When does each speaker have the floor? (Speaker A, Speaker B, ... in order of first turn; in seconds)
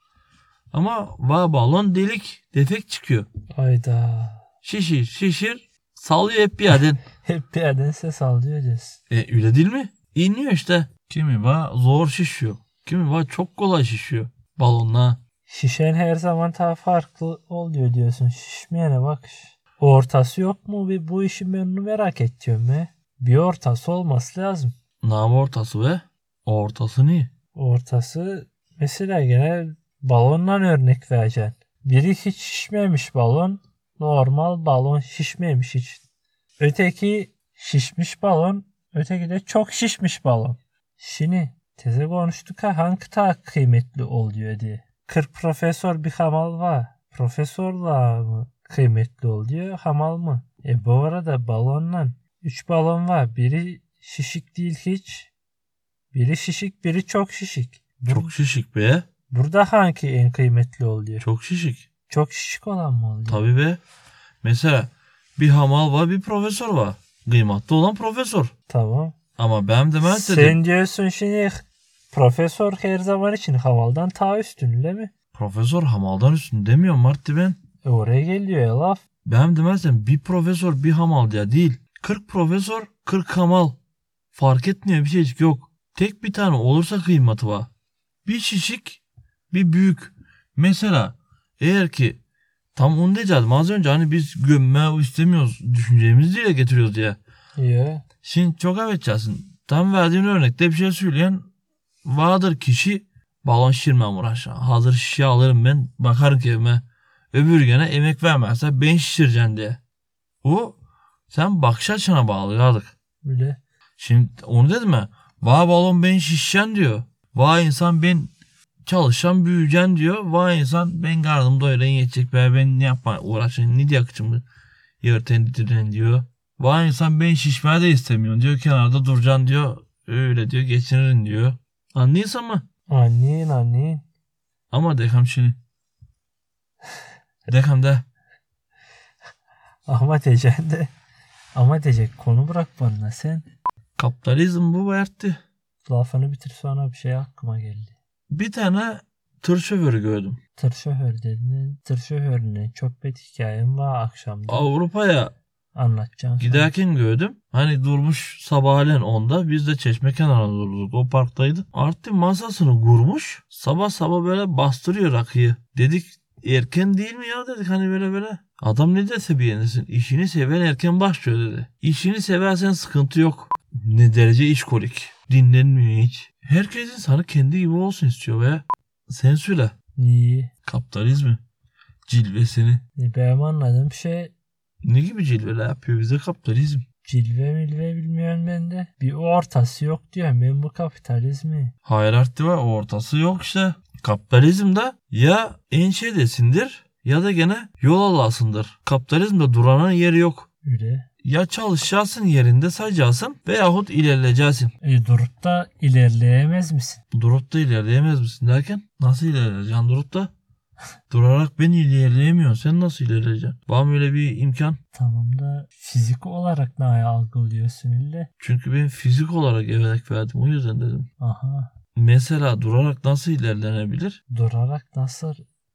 Speaker A: 0.7-3.3, 4.6-7.0, 9.1-15.2, 25.0-27.3, 58.1-59.0, 61.2-61.8, 63.3-63.8, 64.4-68.5, 69.4-70.6, 75.3-77.6, 79.2-83.8, 84.3-87.7, 88.2-92.2, 92.7-97.2, 98.2-101.5, 102.0-109.8, 110.4-110.8, 111.3-112.9, 114.0-118.3, 118.8-124.4, 125.0-132.6, 134.7-135.6, 137.5-138.0, 144.0-145.4, 148.3-150.4, 154.5-155.3, 156.4-179.7, 180.6-181.4, 182.1-182.8, 184.8-186.8, 191.8-200.5, 201.2-204.7, 207.1-210.3, 211.1-214.8, 218.4-221.1, 221.9-224.2
Speaker B: 3.5-4.4, 7.2-9.0, 15.5-24.7, 27.5-36.0, 36.6-55.3, 56.1-58.3, 59.3-61.2, 62.1-63.4, 68.7-69.1, 70.0-75.1, 77.8-79.0, 97.6-98.0, 113.2-113.6, 132.9-134.0, 139.9-140.9, 141.5-143.5, 145.8-147.9, 150.6-154.7, 155.7-156.7, 179.9-180.5, 182.9-184.3, 187.0-191.7, 200.6-201.1, 204.8-207.0, 214.9-218.3, 221.2-221.7, 224.3-225.4